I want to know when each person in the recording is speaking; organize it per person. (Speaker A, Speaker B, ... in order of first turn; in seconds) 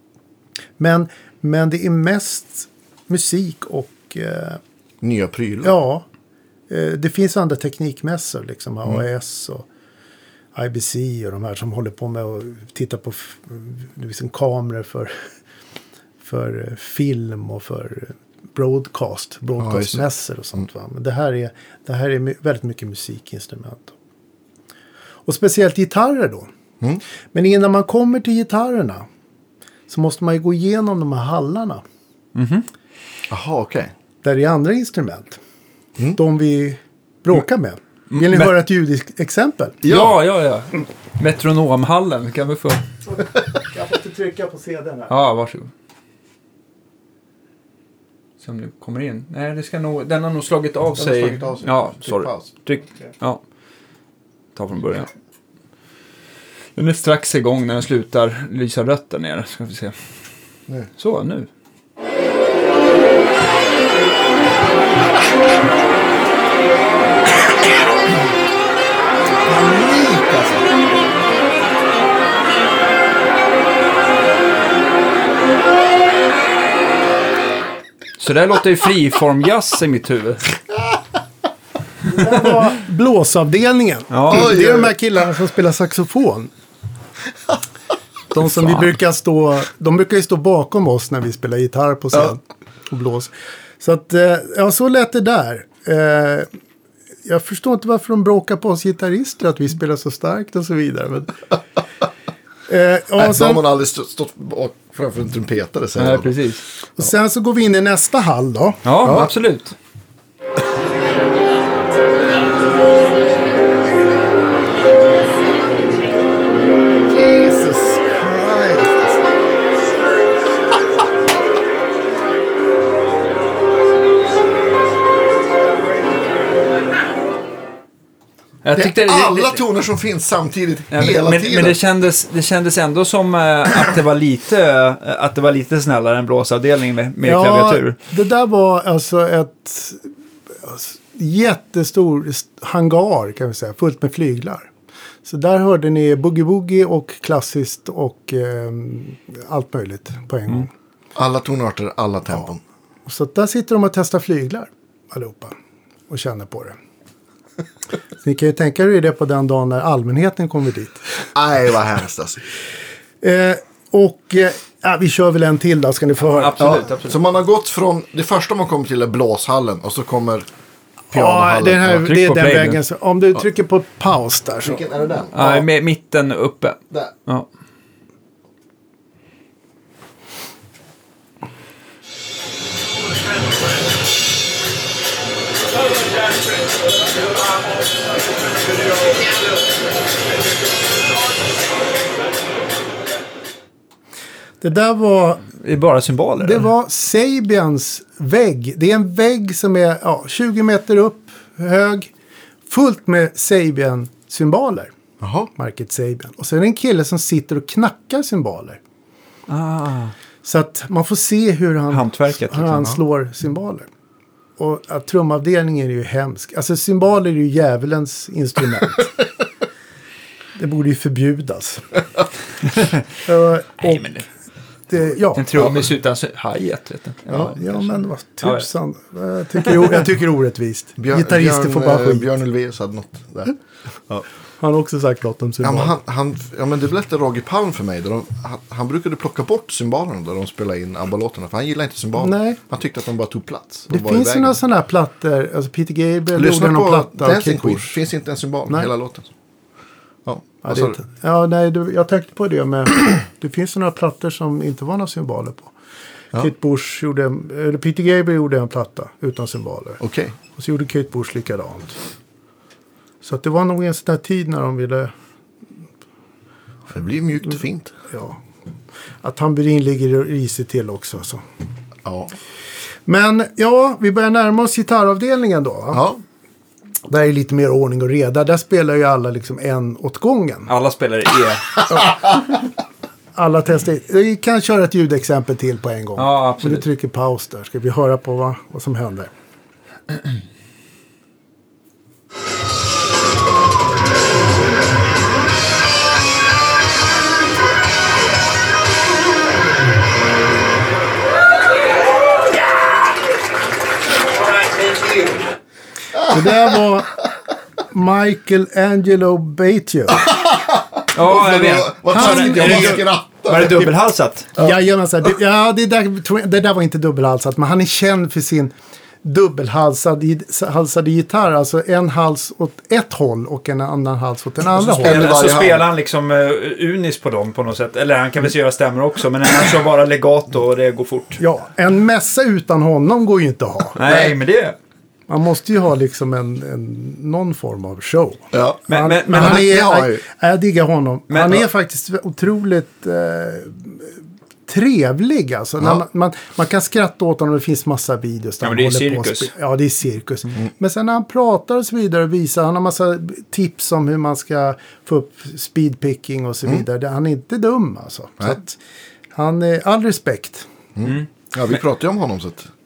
Speaker A: 0.8-4.6, 5.6-6.1, 6.7-9.7, 10.6-15.2, 16.2-23.9, 25.3-26.5, 27.3-29.1, 29.9-31.8, 34.2-35.4, 36.1-39.8, 43.7-45.1, 82.1-86.5, 88.3-96.5, 97.2-101.6, 102.7-103.7, 107.0-108.8, 137.2-144.7, 145.2-150.7, 153.1-155.6, 156.1-156.8, 158.2-161.3, 163.2-166.8, 171.1-175.6, 194.6-195.5, 196.4-202.1, 202.7-204.9, 205.6-208.8, 210.4-213.9, 214.6-219.2, 220.6-222.1, 223.2-224.2, 224.9-225.8, 227.3-232.3, 234.6-235.9, 242.2-242.6, 243.9-248.0, 250.7-255.7, 256.3-260.0, 260.6-262.0, 263.2-265.1, 268.1-268.4, 269.2-271.4, 273.1-276.1, 277.1-280.7, 281.9-282.2, 283.4-289.3, 306.2-307.3, 307.9-310.3, 312.0-313.1, 314.6-325.6, 331.4-334.4, 335.3-358.8, 359.3-360.7
Speaker B: 5.0-5.8, 19.6-20.1, 33.3-33.9, 39.8-40.1, 51.0-52.5, 69.5-70.7, 84.3-84.9, 103.2-106.4, 109.0-109.3, 117.1-119.2, 128.8-131.8, 151.2-152.6, 161.3-162.4, 166.6-170.5, 171.1-172.1, 174.6-175.5, 205.2-205.5, 231.0-234.2, 235.6-244.6, 246.3-249.3, 250.2-251.0, 260.0-260.4, 266.9-268.0, 272.1-272.4, 275.9-276.2, 310.1-313.9, 324.8-325.9, 338.5-340.2, 361.0-362.7
Speaker C: 32.4-32.7, 38.1-38.5, 39.9-42.9, 45.1-45.7, 48.4-53.4, 54.5-55.1, 56.8-60.0, 61.0-61.5, 78.2-80.5, 84.1-84.5, 88.4-88.9, 106.0-106.7, 108.8-109.8, 128.6-129.6, 130.9-138.0, 166.2-167.2, 171.9-172.8, 175.3-177.5, 195.5-196.7, 209.5-210.1, 211.9-212.9, 222.6-223.0, 223.8-224.3, 225.3-228.7, 280.7-281.7, 286.2-286.9, 311.1-314.5, 324.8-331.4, 334.0-334.8, 338.9-339.7, 341.3-341.6, 348.6-349.5